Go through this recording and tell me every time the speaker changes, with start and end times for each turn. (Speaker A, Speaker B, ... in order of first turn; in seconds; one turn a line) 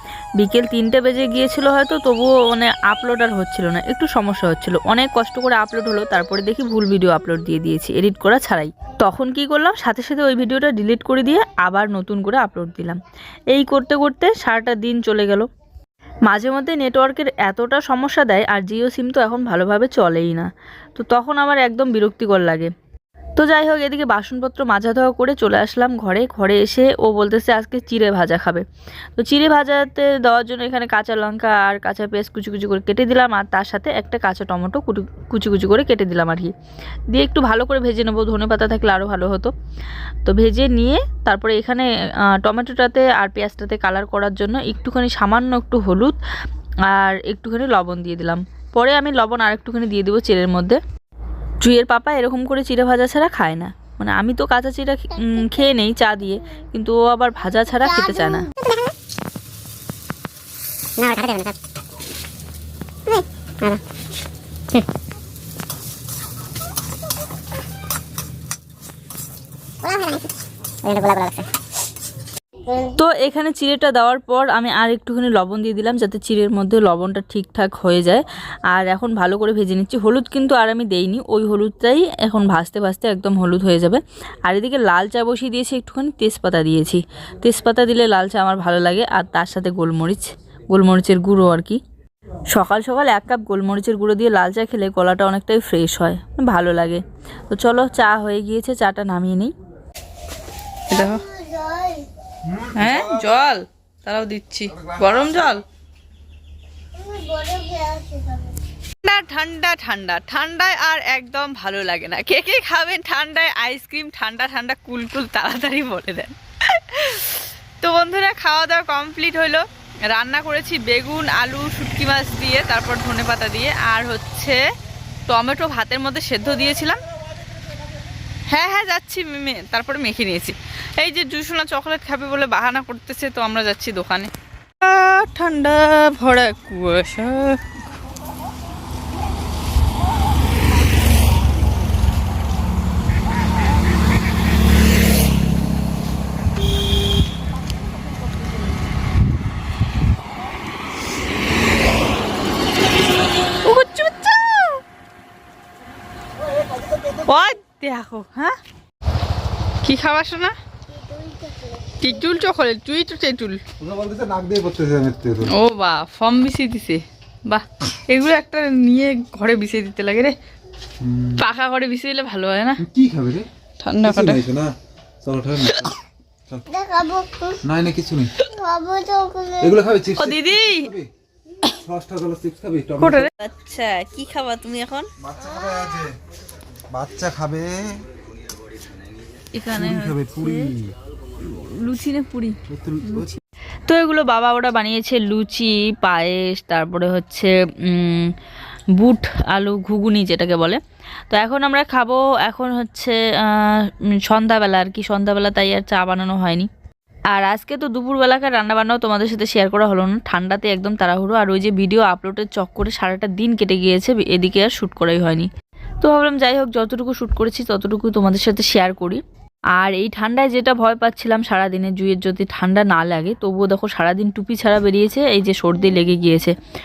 Speaker A: 0.4-13.0
Speaker A: 13.5-15.5
Speaker A: 16.3-22.7
Speaker A: 23.4-28.6
Speaker A: 29.2-36.5
Speaker A: 37.1-39.5
Speaker A: 40.2-46.1
Speaker A: 46.9-50.8
Speaker A: 51.6-58.5
Speaker B: 61.0-61.5
Speaker B: 63.1-63.8
Speaker B: 69.8-70.2
Speaker B: 70.8-71.5
Speaker A: 72.8-91.8
Speaker A: 92.5-99.5
Speaker C: 100.9-101.2
Speaker B: 101.5-102.0
Speaker C: 102.7-105.6
Speaker B: 107.0-108.5
Speaker C: 109.0-124.6
Speaker C: 125.3-127.0
Speaker C: 128.5-134.3
Speaker C: 134.8-137.6
Speaker C: 153.6-154.8
Speaker C: 157.2-158.6
Speaker C: 159.8-160.5
Speaker B: 161.0-161.8
Speaker C: 162.0-163.6
Speaker D: 163.8-165.5
Speaker C: 165.5-170.3
Speaker D: 171.0-171.4
Speaker C: 171.4-172.8
Speaker D: 172.8-173.5
Speaker C: 173.8-174.4
Speaker D: 174.0-176.7
Speaker B: 176.7-177.6
Speaker D: 177.6-178.3
Speaker B: 178.5-179.6
Speaker D: 179.6-181.1
Speaker C: 180.2-180.9
Speaker D: 181.8-183.3
Speaker C: 183.0-183.3
Speaker A: 183.4-185.1
Speaker D: 185.2-186.1
Speaker D: 186.9-188.0
Speaker A: 189.5-190.7
Speaker D: 189.7-190.9
Speaker A: 191.4-198.3
Speaker D: 192.7-193.3
Speaker A: 199.0-200.8
Speaker A: 201.3-206.7
Speaker A: 207.3-215.5
Speaker A: 216.0-219.2
Speaker A: 219.8-226.5